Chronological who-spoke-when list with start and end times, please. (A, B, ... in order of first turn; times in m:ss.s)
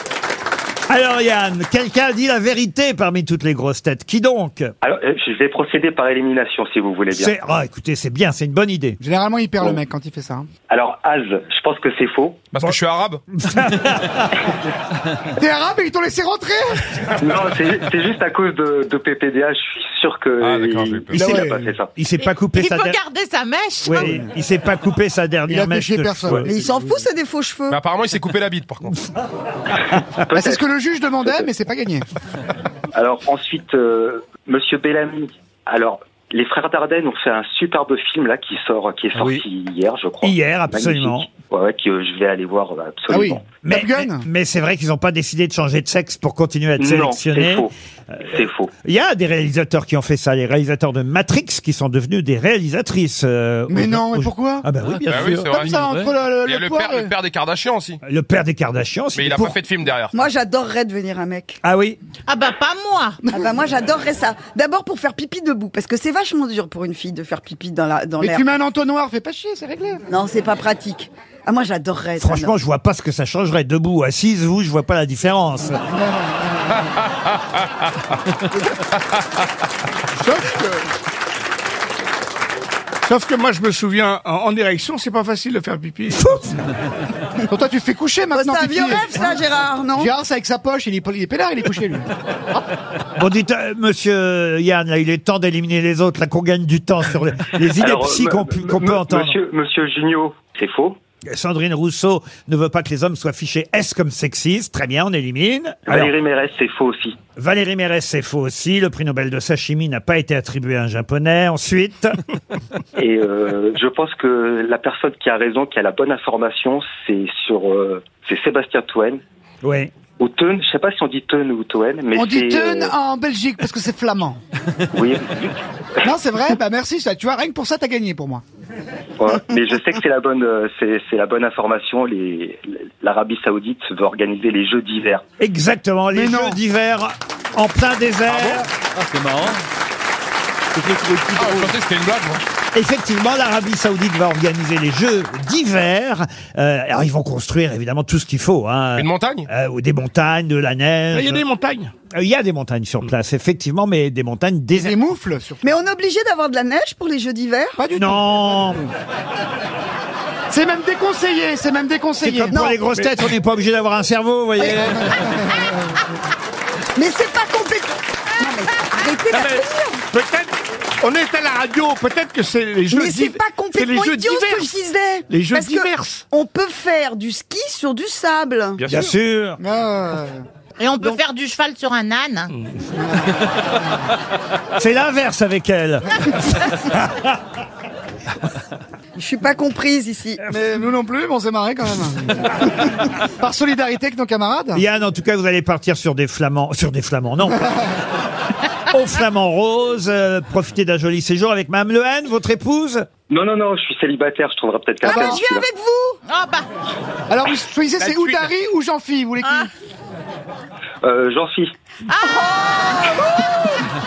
0:00.9-0:04.7 A
0:04.8-0:07.3 B
0:07.1-0:09.0 A
0:09.0-0:10.5 C
0:10.7-0:12.4 B
0:12.5-0:13.2 D
0:13.5-0:14.2 A
0:15.4-0:16.8 C
0:17.2-0:21.9 B
0:20.4-0:21.3 D
0:21.1-0:21.7 C
0:22.0-0:23.0 A
0:22.2-0:24.2 E
0:23.8-0:26.5 A
0:25.5-0:26.8 C
0:26.3-0:27.8 F
0:27.7-0:29.1 D
0:30.0-0:31.5 B
0:30.4-0:32.0 C
0:32.9-0:43.4 B
0:39.2-0:39.4 G
0:40.2-0:41.3 A
0:43.1-0:44.2 C
0:43.6-0:47.7 A
0:46.8-0:48.7 B
0:48.8-0:55.6 A
0:53.7-0:54.7 C
0:55.1-0:55.8 D
0:55.5-0:57.1 C
0:55.6-0:56.2 G
0:56.4-0:58.0 D
0:58.0-0:59.6 A
0:59.2-1:00.2 D
1:00.1-1:01.6 F
1:01.6-1:02.0 A
1:02.3-1:03.2 E
1:03.2-1:08.5 F
1:08.2-1:10.0 C
1:10.1-1:12.6 F
1:12.2-1:15.8 A
1:20.1-1:20.8 H
1:23.0-1:26.4 H
1:27.5-1:29.3 C
1:28.3-1:30.1 F
1:30.0-1:32.6 C
1:33.2-1:39.4 A
1:37.7-1:41.0 B
1:41.3-1:46.1 A
1:45.9-1:47.2 B
1:47.4-1:52.1 A
1:52.9-1:59.2 B
1:59.6-1:59.9 A
2:00.2-2:02.9 B
2:02.2-2:04.4 C
2:04.9-2:06.1 B
2:06.0-2:08.4 C
2:09.2-2:15.2 B
2:15.4-2:18.7 A
2:16.1-2:16.6 C
2:18.4-2:19.6 G
2:20.7-2:21.8 G
2:21.4-2:22.4 D
2:22.7-2:31.4 A
2:29.0-2:29.5 D
2:31.1-2:31.9 H
2:32.1-2:35.0 A
2:34.8-2:35.6 C
2:35.6-2:37.8 F
2:37.8-2:38.8 C
2:38.0-2:38.9 A
2:40.5-2:42.6 C
2:42.2-2:45.3 A
2:42.5-2:42.8 F
2:44.9-2:45.8 C
2:47.0-2:50.0 F
2:49.3-2:49.6 H
2:50.1-2:54.7 H
2:52.9-2:58.8 F
2:55.3-2:56.2 H
2:58.8-2:59.1 D
2:58.9-2:59.6 A
2:59.6-3:00.4 C
3:00.8-3:02.5 E
3:02.9-3:04.0 C
3:04.7-3:07.4 A
3:09.2-3:10.5 F
3:10.5-3:14.8 C
3:14.7-3:17.8 A
3:18.8-3:23.1 A
3:23.3-3:25.7 B
3:25.0-3:26.2 F
3:25.0-3:25.4 C
3:26.3-3:26.7 E
3:27.3-3:29.7 C
3:28.0-3:28.4 D
3:31.0-3:31.7 B
3:32.1-3:33.3 E
3:32.2-3:33.8 F